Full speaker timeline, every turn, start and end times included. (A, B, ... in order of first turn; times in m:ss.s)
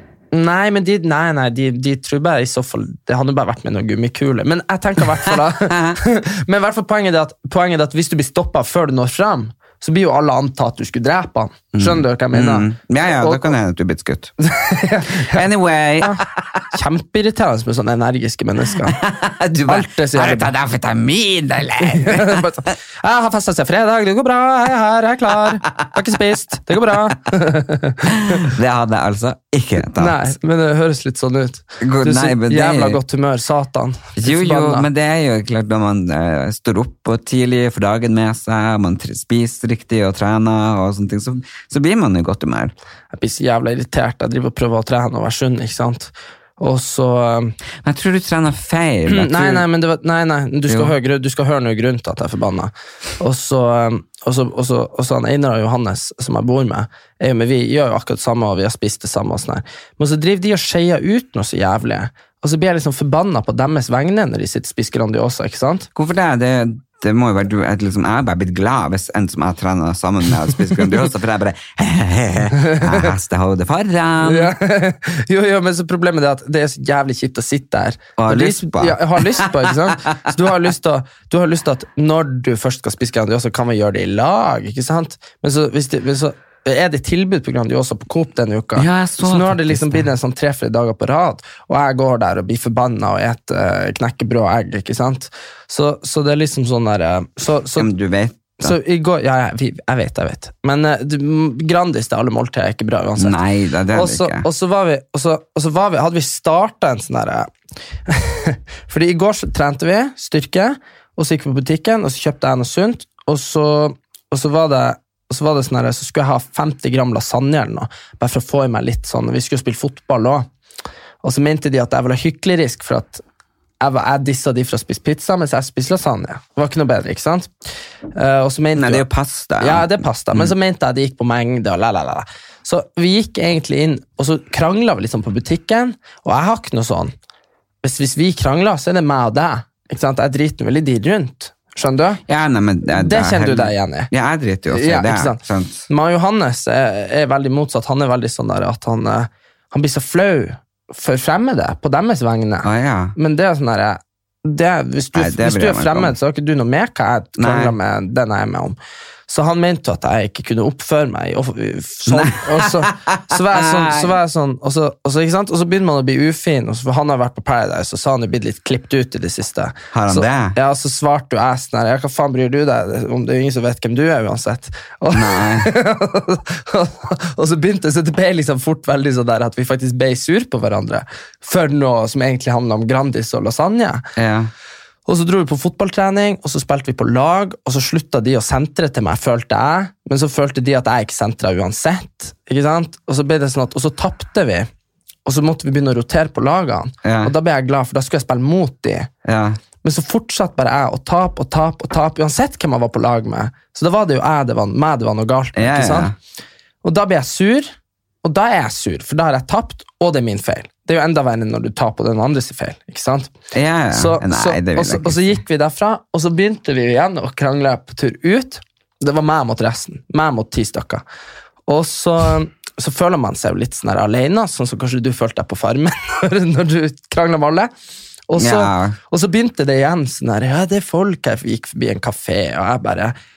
0:00.3-0:13.5 A
0:05.2-0:06.0 B
0:11.7-0:14.3 B
0:14.4-0:15.4 A
0:15.2-0:16.4 B
0:16.0-0:19.0 A
0:18.8-0:22.5 B
0:19.7-0:20.5 A
0:21.9-0:28.5 A
0:28.1-0:30.3 B
0:29.9-0:34.9 A
0:31.8-0:33.0 B
0:34.2-0:42.7 B
0:43.1-0:47.6 A
0:47.8-0:49.7 B
0:49.1-1:05.9 A
0:50.7-0:50.9 B
1:05.9-1:14.6 B
1:12.5-1:13.1 A
1:14.2-1:37.9 A
1:18.2-1:20.2 B
1:28.8-1:30.1 B
1:37.8-1:38.8 B
1:38.6-1:43.4 A
1:43.2-1:44.5 B
1:43.9-1:47.5 A
1:48.1-2:00.5 A
2:01.2-2:03.2 A
2:03.8-2:07.5 A
2:08.2-2:09.1 A
2:08.8-2:10.5 B
2:09.6-2:17.1 A
2:17.8-2:22.2 A
2:22.3-2:25.9 B
2:22.9-2:24.1 A
2:24.7-2:38.8 A
2:32.6-2:33.2 B
2:35.2-2:36.2 B
2:37.4-2:37.8 B
2:39.3-3:04.0 A
2:42.1-2:44.2 B
2:49.9-2:50.6 B
2:55.1-2:55.7 B
3:04.2-3:04.5 B
3:05.1-3:14.7 A
3:15.2-3:19.1 A
3:17.0-3:17.3 B
3:19.2-3:19.6 B
3:19.8-3:26.2 A
3:25.6-3:26.2 B
3:26.8-3:27.7 A
3:28.2-3:33.3 A
3:33.5-3:35.4 B
3:33.9-3:41.0 A
3:41.7-3:47.7 A
3:48.3-3:53.2 A
3:48.4-3:49.0 B